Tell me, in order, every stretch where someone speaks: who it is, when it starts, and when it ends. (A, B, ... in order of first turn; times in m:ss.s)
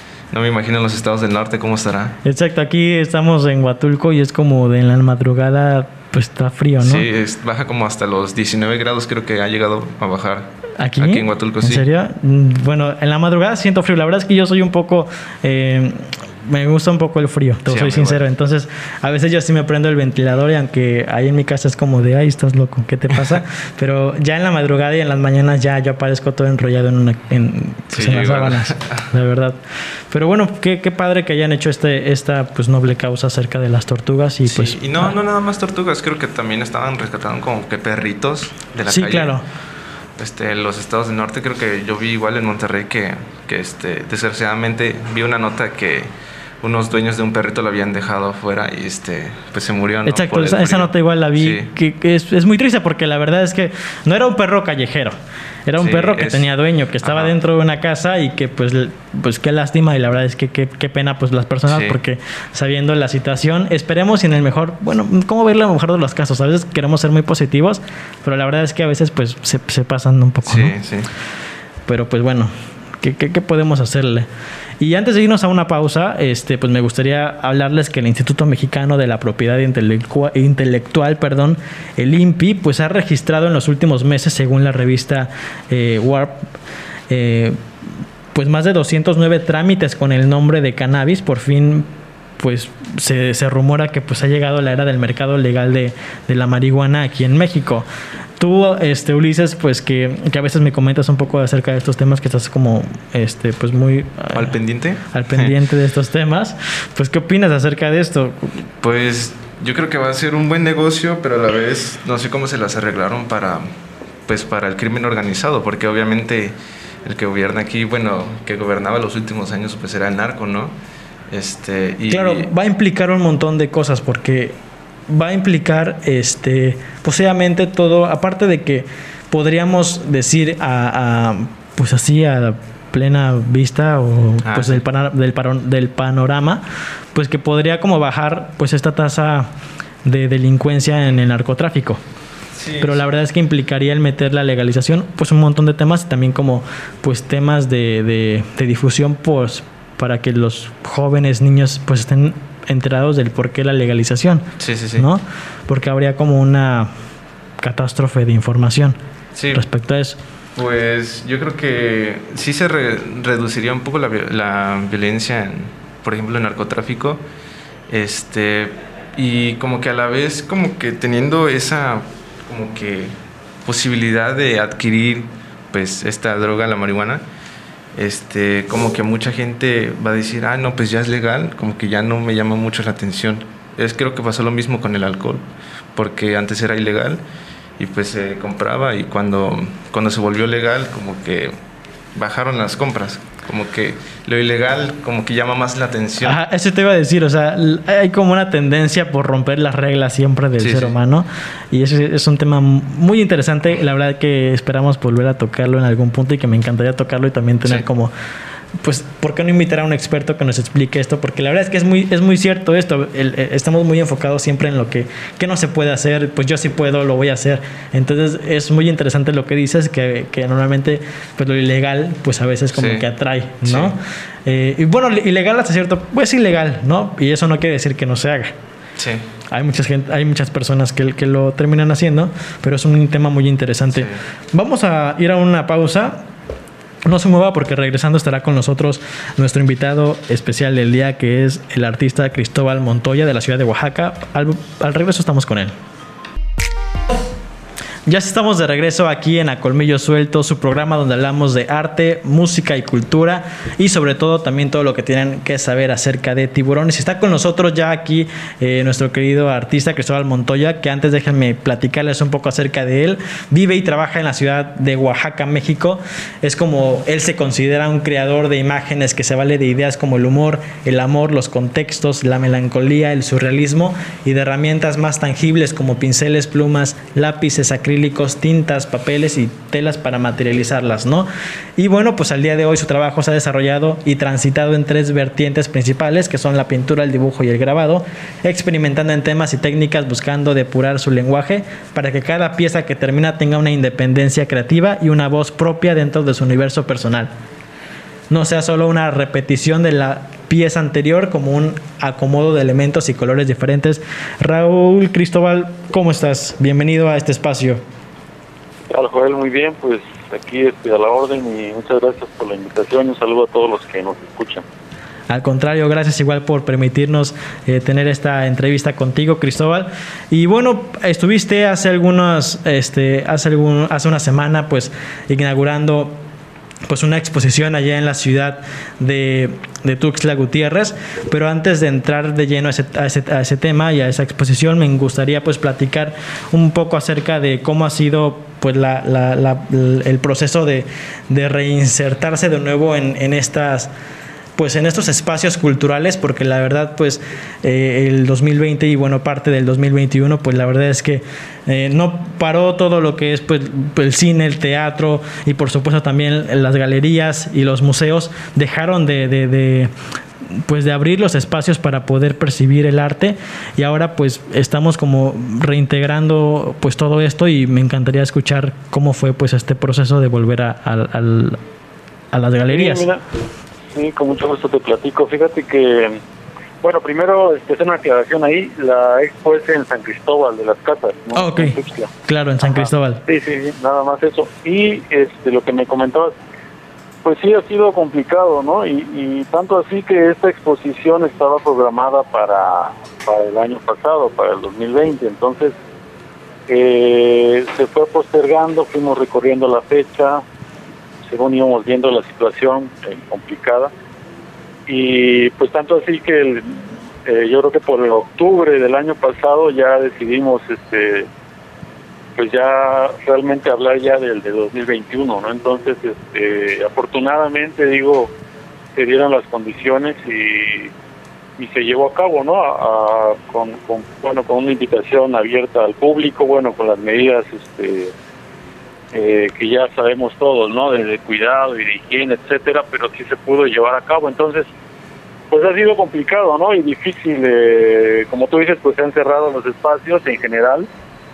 0:00.3-0:02.2 A
0:02.2-0:07.0 B
0:06.8-0:11.8 A
0:10.8-0:29.6 B
0:17.7-0:18.2 A
0:27.9-0:29.1 A
0:30.1-0:35.1 B
0:34.4-0:39.4 A
0:38.9-0:39.4 B
0:40.2-0:46.1 A
0:46.6-0:51.7 A
0:50.0-0:55.1 B
0:55.7-1:10.7 B
0:55.8-0:56.5 A
0:57.0-0:57.3 A
1:01.7-1:02.0 A
1:10.4-1:11.1 A
1:11.9-1:14.3 B
1:14.8-1:26.4 B
1:27.1-1:27.6 B
1:28.3-1:31.9 B
1:32.4-1:37.9 B
1:38.4-1:44.5 B
1:44.3-1:45.5 A
1:45.1-1:48.6 B
1:48.8-1:53.7 A
1:54.3-2:00.7 A
2:01.3-2:02.5 A
2:02.1-2:04.6 B
2:05.1-2:16.6 B
2:14.4-2:14.8 A
2:17.1-2:19.5 B
2:20.0-2:22.0 B
2:22.5-2:23.0 A
2:22.8-2:36.9 B
2:34.6-2:35.0 A
2:37.6-2:39.0 B
2:39.3-2:39.6 A
2:39.5-2:40.2 B
2:40.6-2:47.2 A
2:47.9-2:53.1 A
2:53.6-2:57.2 A
2:58.0-3:05.4 A
3:06.0-3:07.2 A
3:07.8-3:11.5 A
3:12.1-3:16.4 A
3:16.2-3:28.1 B
3:20.6-3:20.9 A
3:28.8-3:48.5 B
3:42.7-3:43.0 A
3:43.6-3:43.9 A
3:49.0-3:49.2 A
3:49.5-3:56.2 B
3:53.9-3:54.2 A
3:57.0-4:05.7 B
4:08.0-4:57.3 B
4:58.3-5:07.8 B
5:08.9-5:14.6 C
5:15.3-5:26.2 B
5:26.9-5:43.9 B
5:44.6-5:59.9 B
6:00.7-6:11.6 B
6:12.3-6:13.0 B
6:12.7-6:13.2 C
6:13.9-6:16.2 C
6:16.8-6:22.1 C
6:21.3-6:23.2 B
6:22.6-6:26.3 C
6:27.2-6:35.7 C
6:36.7-6:40.4 C
6:41.3-6:43.9 C
6:44.9-6:51.3 C
6:52.4-6:58.3 C
6:58.9-7:00.9 C
7:01.6-7:08.1 C
7:09.1-7:14.7 C
7:15.5-7:20.9 C